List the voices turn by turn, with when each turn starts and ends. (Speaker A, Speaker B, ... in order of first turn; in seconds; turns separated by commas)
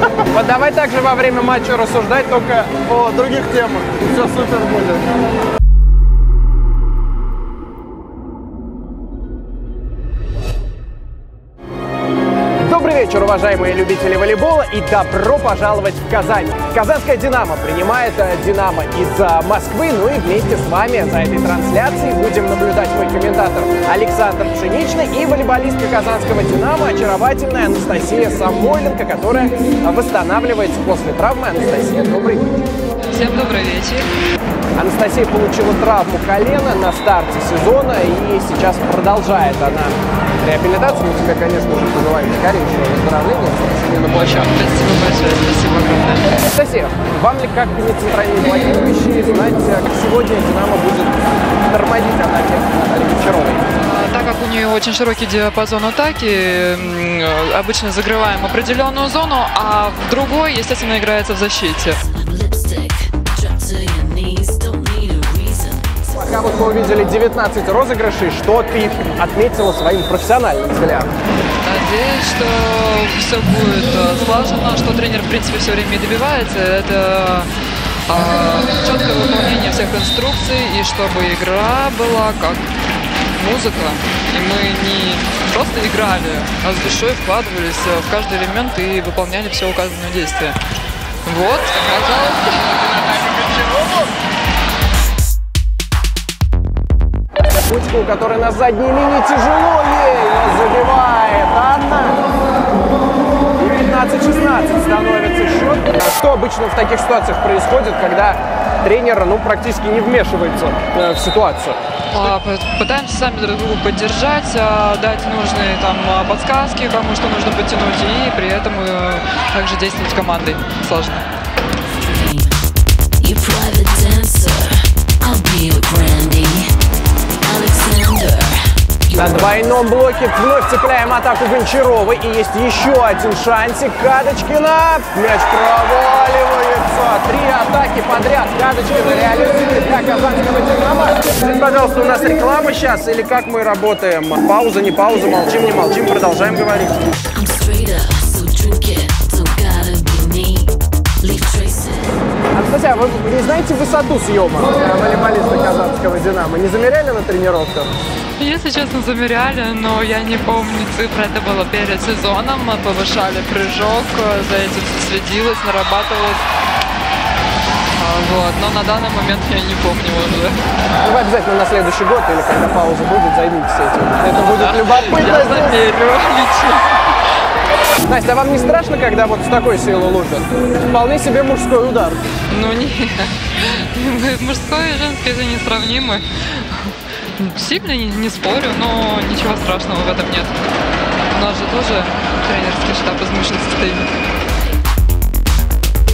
Speaker A: 0.2-5.0, Speaker A: 12.6-32.4, Speaker B: 33.1-34.1, Speaker A: 34.8-44.5, Speaker B: 44.5-46.3, Speaker A: 46.4-53.6, Speaker B: 53.8-62.0, Speaker C: 62.0-66.0, Speaker A: 66.1-71.1, Speaker B: 71.6-77.5, Speaker B: 78.1-82.7, Speaker B: 83.3-90.6, Speaker B: 91.2-92.9, Speaker A: 97.6-102.2, Speaker A: 103.6-111.8, Speaker B: 112.1-121.2, Speaker C: 122.0-122.6, Speaker C: 123.2-126.7, Speaker C: 127.4-129.4, Speaker A: 129.1-147.1, Speaker C: 147.3-152.1, Speaker A: 152.5-157.9, Speaker B: 158.4-166.4, Speaker B: 168.0-170.6, Speaker A: 171.0-175.8, Speaker B: 174.2-177.2, Speaker A: 178.0-182.3, Speaker B: 182.5-190.6, Speaker B: 191.3-194.1